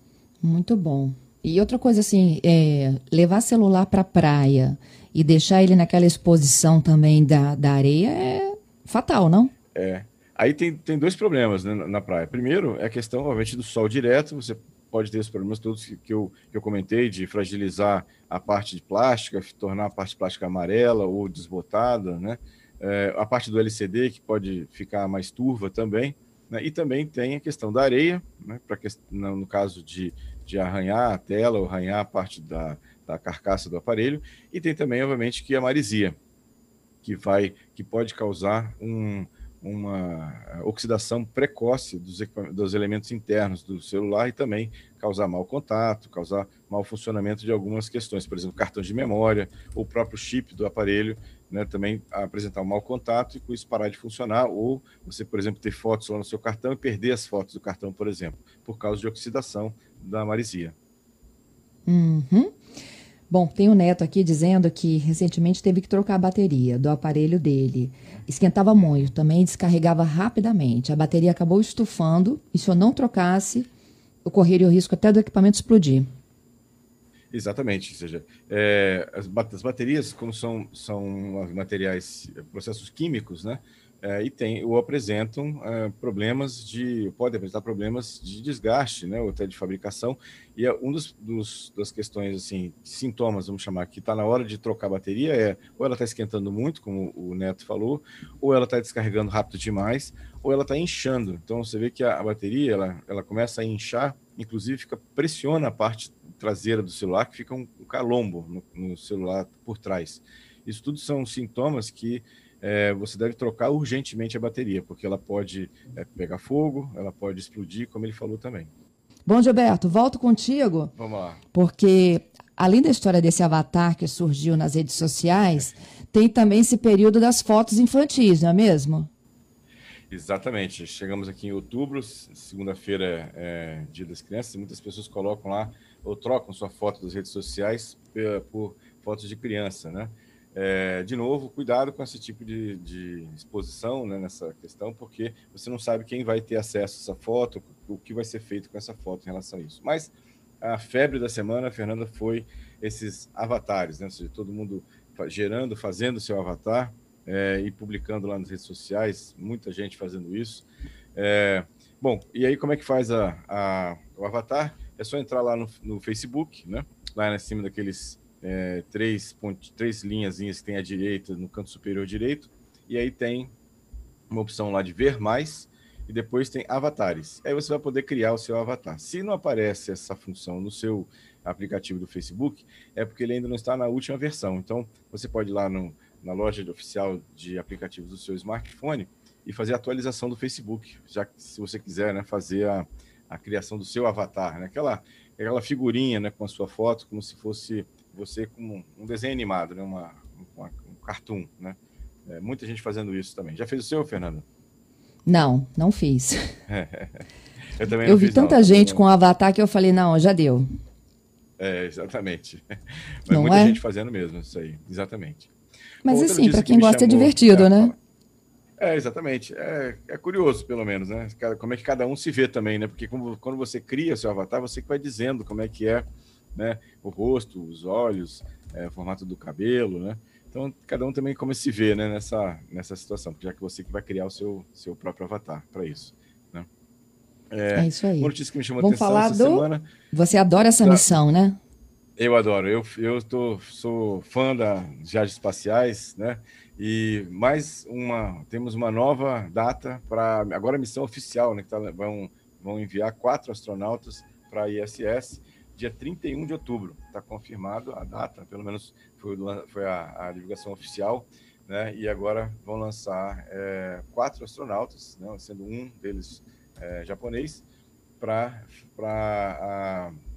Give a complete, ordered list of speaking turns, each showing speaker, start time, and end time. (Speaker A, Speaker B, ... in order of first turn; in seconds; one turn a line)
Speaker A: 0.4-9.5
Speaker B: 9.7-36.2
Speaker B: 37.0-60.8
Speaker A: 61.9-62.6
Speaker A: 63.3-73.7
Speaker A: 74.2-76.1
Speaker B: 77.3-118.7
Speaker A: 119.3-120.9
Speaker B: 121.0-121.4
Speaker A: 121.5-129.1
Speaker B: 130.1-173.5
Speaker B: 174.3-204.4
Speaker A: 205.2-206.5
Speaker B: 206.7-207.2
Speaker B: 207.8-209.1
Speaker A: 208.0-210.7
Speaker B: 211.6-212.7
Speaker B: 213.2-215.5
Speaker A: 213.3-213.8
Speaker A: 216.0-217.9
Speaker B: 216.1-218.0
Speaker B: 218.8-236.7
Speaker B: 237.5-239.9
Speaker A: 237.7-241.6
Speaker B: 240.8-241.1
Speaker B: 242.2-267.6
Speaker B: 268.2-270.2